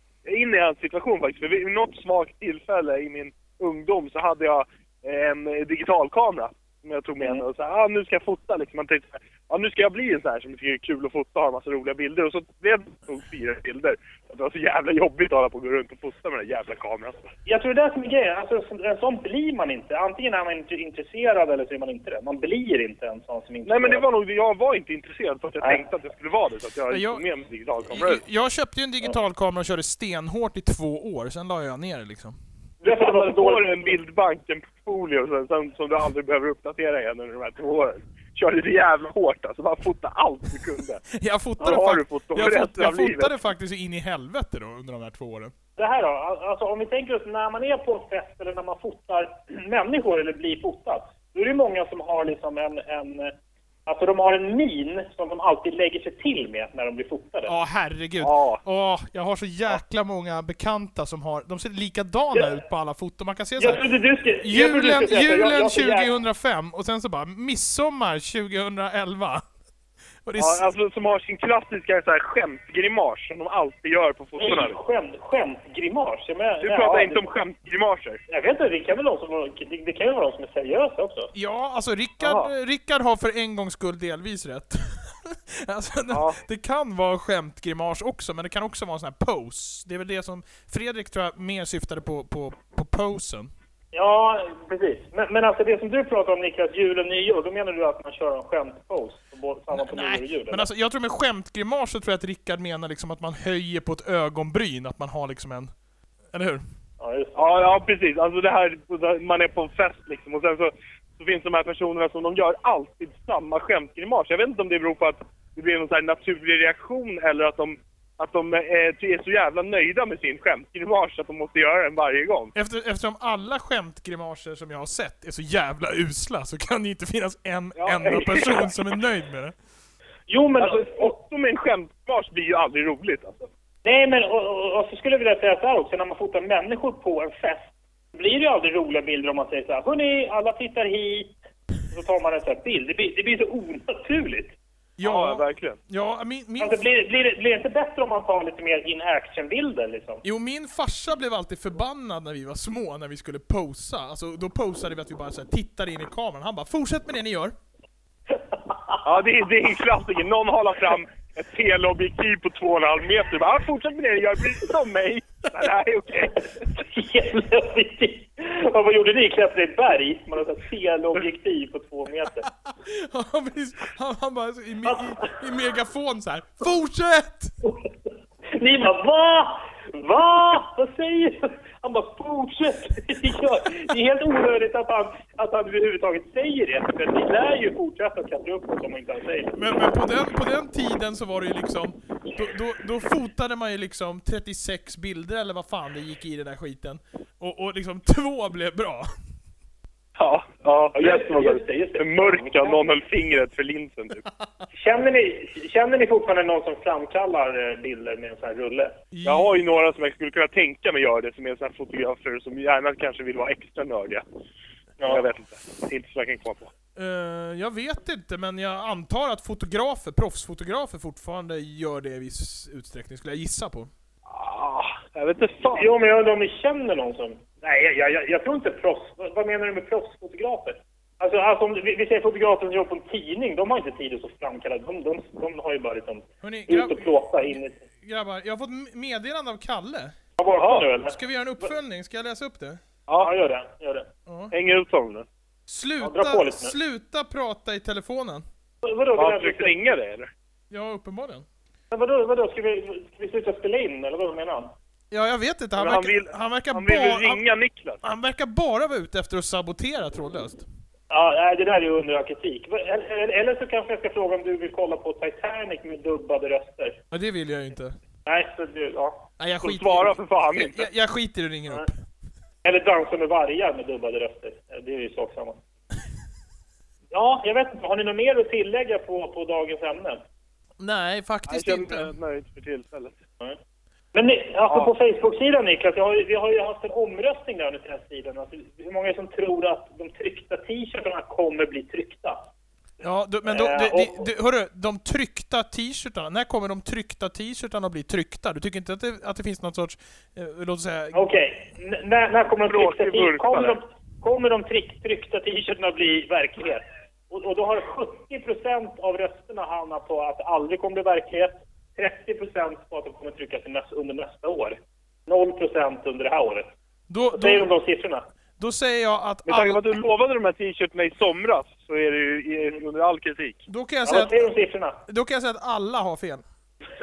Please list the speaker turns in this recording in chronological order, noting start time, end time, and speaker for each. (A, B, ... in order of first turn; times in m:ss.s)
0:00.2-0:17.3 A
0:17.4-0:24.0 B
0:23.6-0:28.2 A
0:26.9-0:27.2 C
0:27.9-0:32.4 C
0:32.8-0:33.7 B
0:32.8-0:41.0 A
0:41.1-0:45.5 C
0:41.6-0:43.3 A
0:45.8-0:53.3 B
0:53.8-0:57.5 B
0:57.5-1:03.8 C
0:58.2-0:58.6 A
1:03.6-1:06.1 B
1:04.4-1:09.4 C
1:10.2-1:10.6 C
1:10.4-1:14.8 A
1:14.4-1:17.2 B
1:16.6-1:18.2 A
1:18.3-1:21.3 B
1:21.3-1:33.5 C
1:22.2-1:22.5 A
1:26.1-1:26.4 A
1:33.9-1:40.7 B
1:39.7-1:45.7 C
1:46.3-1:46.6 C
1:47.0-1:47.4 B
1:47.4-2:02.5 A
2:02.5-2:09.5 C
2:07.8-2:08.7 A
2:10.3-2:11.1 B
2:10.6-2:13.5 A
2:13.8-2:21.3 B
2:21.9-2:24.6 B
2:25.0-2:26.8 C
2:25.0-2:25.8 A
2:26.6-2:30.2 B
2:30.2-2:37.5 C
2:39.0-2:46.7 A
2:46.6-2:52.5 B
2:52.6-2:57.5 C
2:54.9-2:55.3 B
2:58.5-3:09.6 B
3:09.6-3:19.1 C
3:20.2-3:24.3 A
3:20.9-3:22.8 B
3:24.7-3:29.0 B
3:29.1-3:29.5 C
3:29.2-3:34.2 A
3:35.0-3:36.7 A
3:36.9-3:43.9 C
3:44.3-3:45.9 A
3:45.7-3:57.8 B
3:56.4-3:57.1 C
3:58.0-4:00.1 C
4:00.4-4:01.7 B
4:01.0-4:02.8 C
4:03.1-4:03.3 A
4:03.2-4:04.1 B
4:04.3-4:04.5 C
4:04.5-4:05.2 A
4:05.7-4:08.4 C
4:06.0-4:06.7 B
4:08.8-4:09.7 B
4:09.2-4:10.3 A
4:10.7-4:11.4 C
4:11.9-4:14.7 B
4:15.1-4:17.4 C
4:15.8-4:18.0 A
4:18.0-4:20.6 C
4:21.1-4:27.0 B
4:27.1-4:28.0 C
4:28.2-4:29.3 B
4:29.4-4:31.9 C
4:29.6-4:30.8 A
4:32.6-4:35.6 B
4:37.1-4:40.2 B
4:40.8-4:42.1 C
4:41.5-4:43.1 A
4:44.1-4:52.4 B
4:53.0-5:01.3 C
4:53.4-4:54.2 B
5:01.1-5:16.7 B
5:02.6-5:03.8 A
5:17.1-5:17.7 C
5:17.3-5:18.2 B
5:18.6-5:19.8 C
5:19.5-5:23.7 A
5:23.7-5:24.5 C
5:24.0-5:25.0 B
5:25.1-5:26.4 C